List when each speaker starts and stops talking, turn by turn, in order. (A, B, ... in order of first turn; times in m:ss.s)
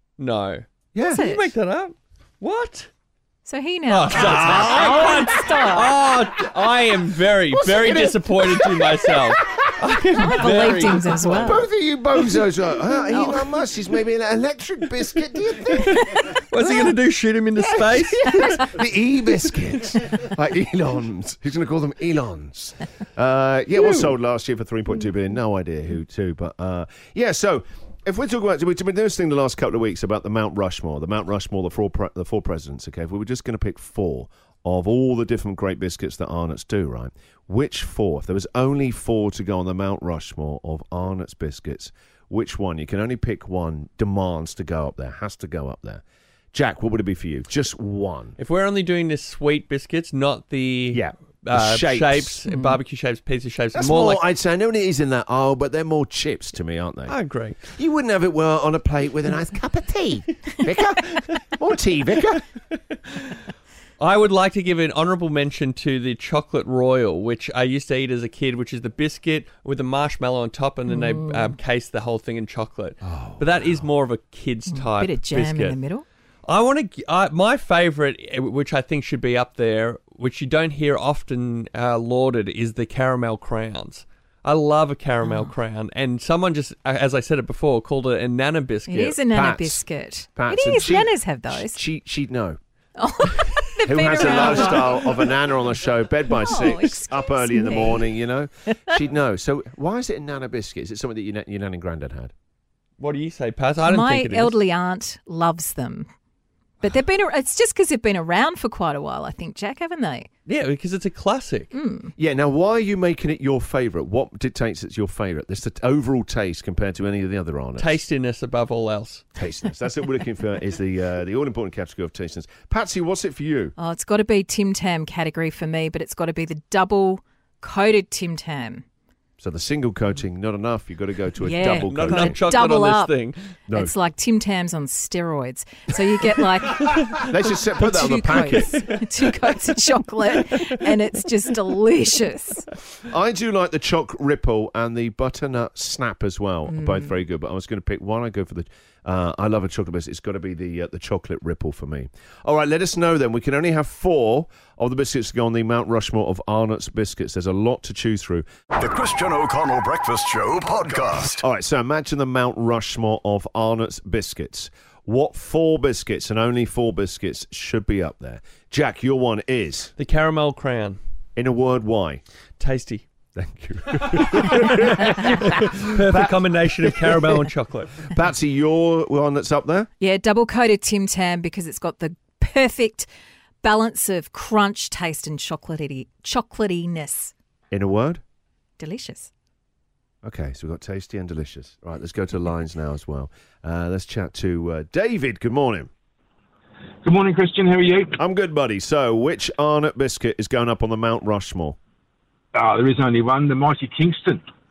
0:00.2-0:02.9 A
0:00.9-0:01.2 B
0:01.1-0:01.5 C
0:03.4-0:06.0 C
0:03.9-0:11.4 A
0:04.1-0:05.0 B
0:07.5-0:08.9 B
0:10.2-0:11.7 C
0:11.3-0:16.2 B
0:15.9-0:18.7 A
0:18.2-0:46.0 B
0:23.8-0:24.1 A
0:46.5-0:48.4 B
0:48.4-0:54.2 A
0:50.9-0:52.4 B
0:52.5-0:52.8 C
0:53.8-0:57.2 B
0:57.1-0:57.6 A
0:57.7-1:02.4 B
1:04.0-1:15.8 A
1:10.9-1:11.5 C
1:13.0-1:13.9 B
1:14.7-1:16.0 C
1:16.4-1:29.1 A
1:25.2-1:25.5 C
1:28.9-1:31.8 C
1:28.9-1:32.6 B
1:33.0-1:35.3 C
1:33.8-1:42.3 B
1:36.4-1:38.1 C
1:43.0-1:44.6 A
1:43.8-1:46.1 C
1:46.8-1:50.3 C
1:50.5-1:51.7 A
1:51.7-1:52.1 C
1:52.2-1:58.0 B
1:57.8-1:59.2 A
1:59.4-2:03.8 B
2:03.8-2:08.8 C
2:09.4-2:12.4 B
2:11.4-2:13.2 C
2:11.8-2:13.4 A
2:13.7-2:13.9 B
2:13.7-2:22.7 C
2:17.2-2:18.8 B
2:23.1-2:38.5 B
2:26.7-2:27.2 C
2:38.8-2:41.4 D
2:41.4-2:49.9 B
2:50.0-2:51.0 A
2:51.4-2:52.2 B
2:52.6-2:53.0 A
2:53.3-2:57.4 B
2:54.1-2:58.0 A
2:58.1-2:59.9 B
3:00.0-3:03.1 C
3:03.6-3:07.3 C
3:07.7-3:08.2 B
3:08.8-3:09.3 C
3:10.2-3:15.9 B
3:17.0-3:18.2 E
3:18.2-3:21.8 B
3:22.5-3:24.4 E